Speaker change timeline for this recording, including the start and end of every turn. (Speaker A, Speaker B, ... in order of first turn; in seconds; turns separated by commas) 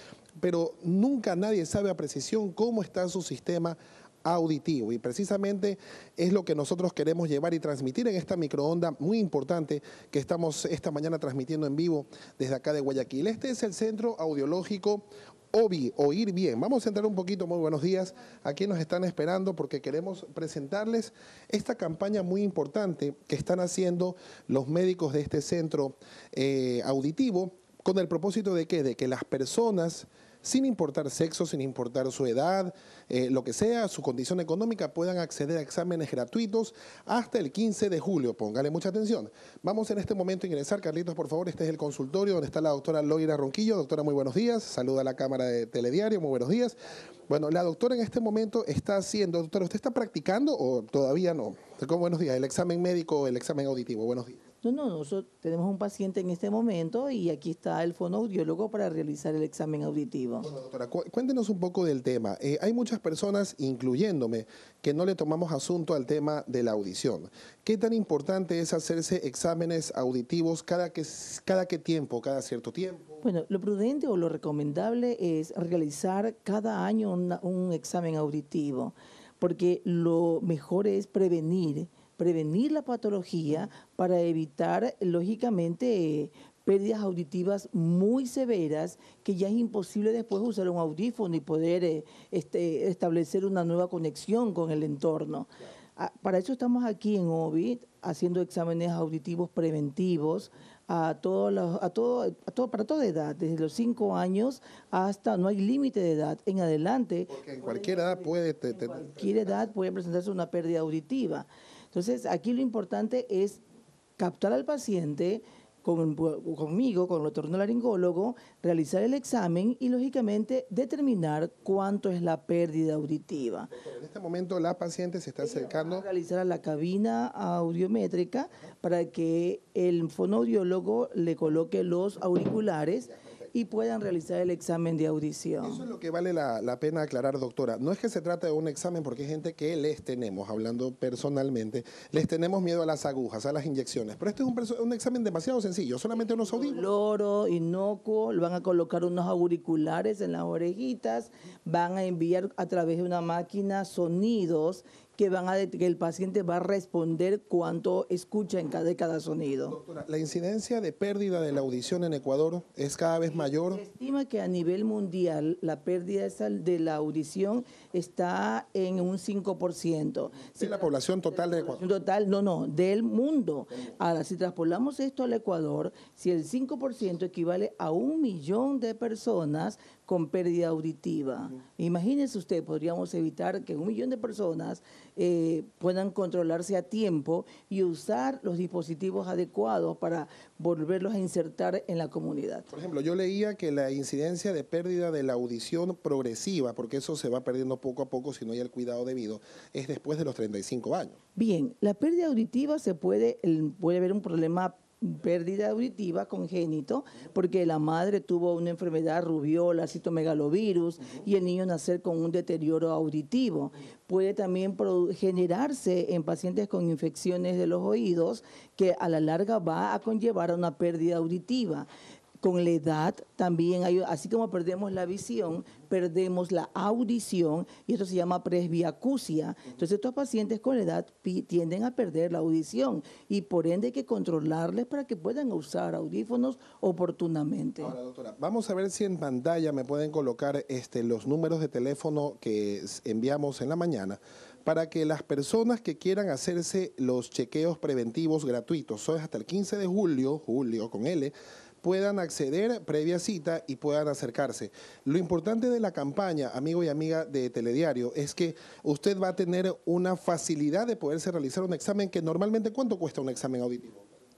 Speaker A: 0.4-46.8, Speaker A: 47.3-54.4, Speaker B: 54.6-60.5, Speaker A: 60.4-73.2, Speaker B: 73.2-113.6, Speaker A: 107.3-109.7, Speaker B: 114.2-123.7, Speaker A: 123.7-126.0, Speaker B: 125.4-135.8, Speaker A: 135.6-146.8, Speaker B: 146.2-159.8, Speaker A: 159.7-163.8, Speaker B: 163.3-192.7, Speaker A: 170.6-171.8, Speaker A: 192.7-201.2, Speaker B: 201.3-221.9, Speaker B: 222.4-237.9, Speaker A: 237.8-264.0